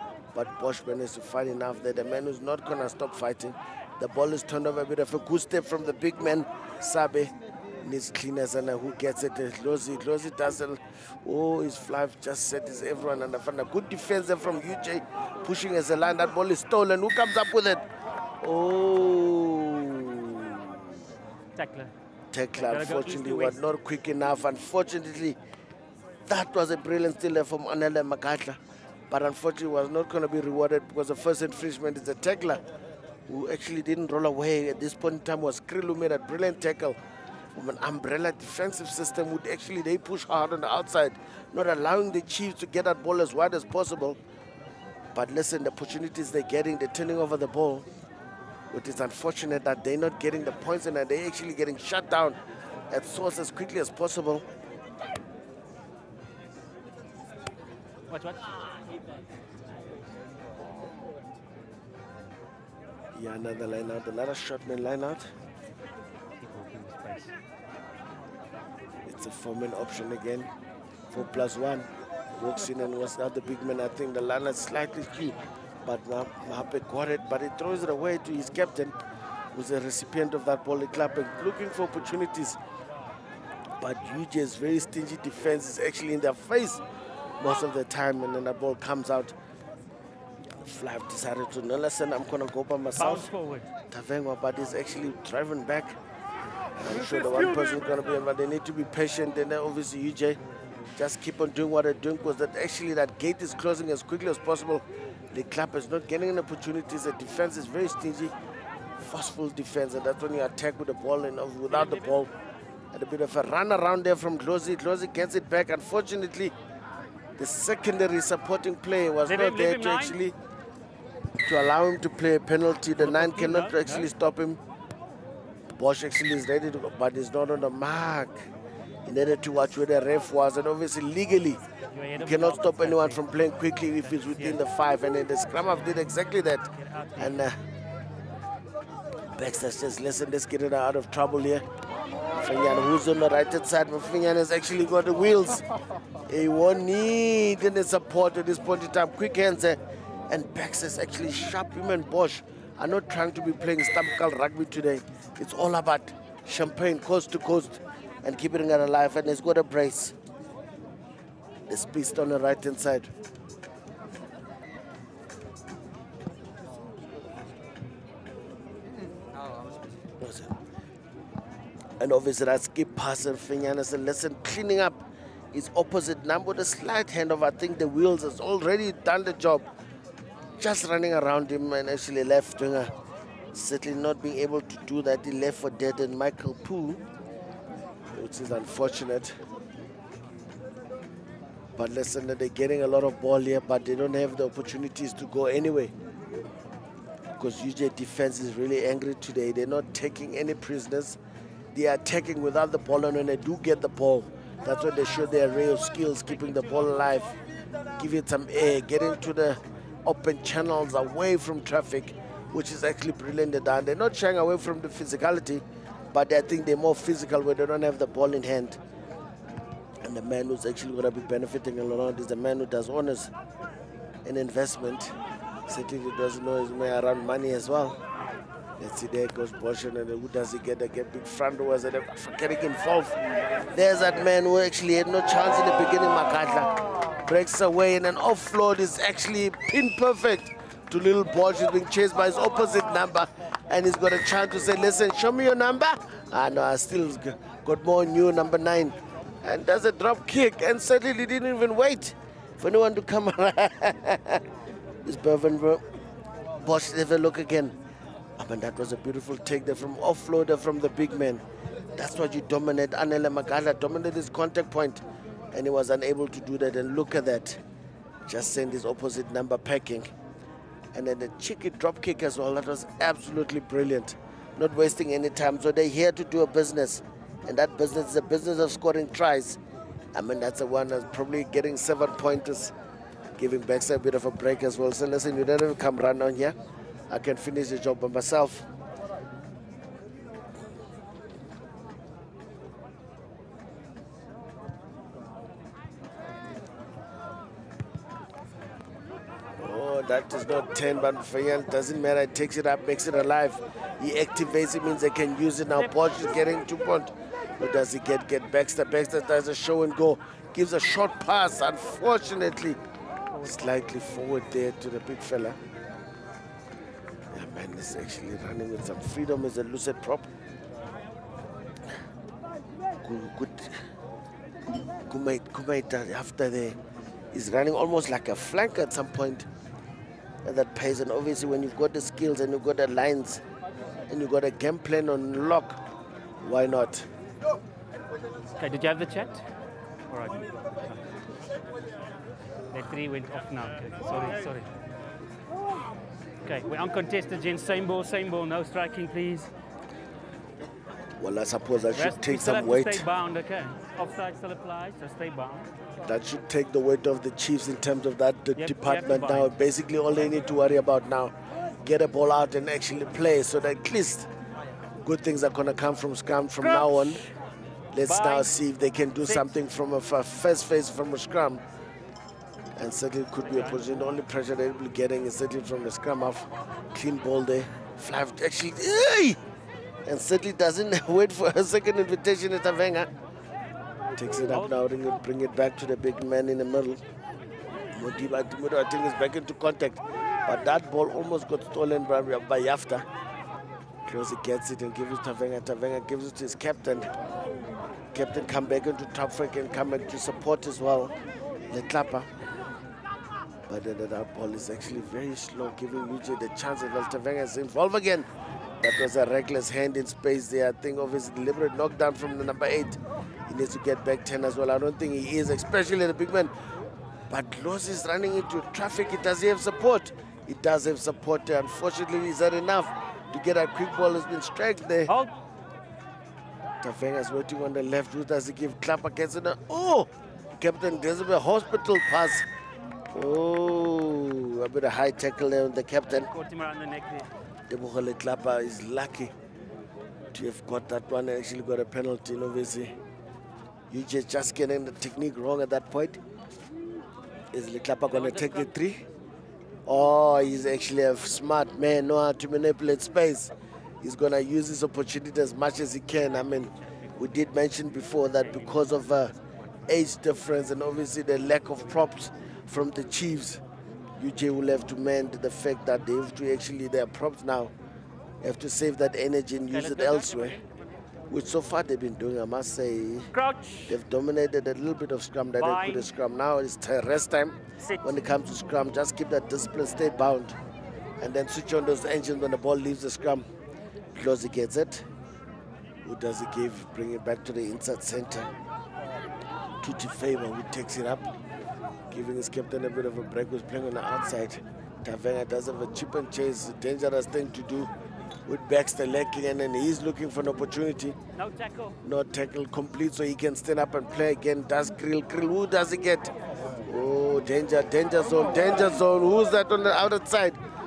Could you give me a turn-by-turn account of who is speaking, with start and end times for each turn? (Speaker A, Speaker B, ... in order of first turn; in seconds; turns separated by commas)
Speaker A: 0.3-17.8, Speaker A: 18.4-20.9, Speaker B: 21.5-21.9, Speaker A: 22.3-25.4, Speaker B: 22.6-23.6, Speaker A: 26.3-28.6, Speaker A: 29.1-32.6, Speaker A: 33.3-37.0, Speaker A: 37.5-44.2, Speaker A: 45.1-47.9, Speaker A: 48.7-52.4, Speaker A: 52.9-54.4, Speaker B: 58.1-58.6, Speaker A: 63.1-65.3, Speaker B: 66.4-67.3, Speaker A: 69.0-70.5, Speaker A: 71.1-79.0, Speaker A: 79.5-82.6, Speaker A: 83.8-86.8, Speaker A: 87.4-89.3, Speaker A: 90.6-93.3, Speaker B: 93.0-93.7, Speaker A: 93.9-96.0, Speaker A: 96.8-100.4, Speaker A: 101.0-108.3, Speaker A: 109.0-112.3, Speaker B: 111.7-112.1, Speaker A: 112.9-116.5, Speaker A: 117.4-120.3, Speaker B: 119.2-120.2, Speaker A: 121.4-124.6, Speaker B: 123.0-124.1, Speaker A: 125.8-128.5, Speaker A: 129.1-131.6, Speaker B: 131.9-134.6, Speaker A: 132.2-137.6, Speaker B: 136.8-137.4, Speaker A: 139.3-141.6, Speaker A: 142.4-145.6, Speaker A: 146.3-160.1, Speaker A: 161.7-163.1, Speaker A: 170.2-170.6, Speaker A: 172.0-175.0, Speaker A: 175.5-179.7, Speaker A: 180.6-182.9, Speaker A: 183.5-187.0, Speaker A: 188.1-189.3, Speaker A: 191.8-195.9, Speaker A: 197.4-201.2, Speaker A: 201.7-207.4, Speaker A: 208.0-218.8, Speaker A: 220.0-223.3, Speaker A: 224.2-225.1, Speaker A: 225.7-228.0, Speaker A: 228.8-233.2, Speaker A: 233.7-236.7, Speaker A: 237.2-254.4, Speaker A: 255.0-255.8, Speaker A: 256.6-257.8, Speaker A: 258.4-261.4, Speaker A: 262.0-267.6, Speaker A: 268.3-270.1, Speaker A: 270.9-279.6, Speaker A: 280.1-282.7, Speaker A: 283.4-286.6, Speaker A: 287.1-288.6, Speaker A: 299.6-312.8, Speaker A: 313.4-315.6, Speaker A: 317.3-320.3, Speaker A: 323.0-323.8, Speaker A: 325.1-326.8, Speaker A: 327.3-329.5, Speaker A: 330.4-333.4, Speaker A: 334.1-335.8, Speaker A: 336.4-337.1, Speaker B: 338.6-339.4, Speaker B: 340.1-341.0, Speaker B: 342.7-344.7, Speaker B: 346.4-349.5, Speaker A: 351.2-353.0, Speaker B: 351.9-355.7, Speaker A: 356.0-361.3, Speaker B: 358.6-359.5, Speaker A: 361.8-364.3, Speaker A: 365.0-367.2, Speaker B: 366.6-367.3, Speaker A: 367.9-371.6, Speaker B: 368.0-368.5, Speaker B: 369.2-369.5, Speaker A: 372.8-379.4, Speaker B: 373.4-373.8, Speaker A: 380.1-383.1, Speaker A: 384.2-387.0, Speaker A: 387.9-393.1, Speaker A: 394.1-397.1, Speaker A: 398.1-401.1, Speaker A: 401.7-402.3, Speaker A: 403.7-408.3, Speaker A: 408.8-416.5, Speaker A: 417.3-425.1, Speaker B: 425.1-425.3, Speaker A: 426.8-432.4, Speaker A: 433.1-436.3, Speaker B: 436.1-437.3, Speaker A: 437.7-439.3, Speaker A: 440.3-442.9, Speaker A: 443.9-446.2, Speaker A: 447.5-449.0, Speaker B: 448.1-448.7, Speaker A: 449.9-453.5, Speaker A: 454.0-459.3, Speaker B: 458.4-458.9, Speaker A: 459.9-463.6, Speaker A: 464.2-467.7, Speaker A: 468.4-470.6, Speaker B: 469.7-470.7, Speaker A: 471.3-473.3, Speaker B: 473.3-473.9, Speaker A: 473.9-480.6, Speaker B: 475.6-476.1, Speaker B: 477.8-478.1, Speaker A: 481.2-483.4, Speaker A: 484.1-485.1, Speaker A: 486.0-488.5, Speaker A: 489.8-491.3, Speaker A: 492.1-497.9, Speaker A: 498.5-501.1, Speaker B: 501.4-502.0, Speaker A: 502.0-506.3, Speaker A: 506.9-510.6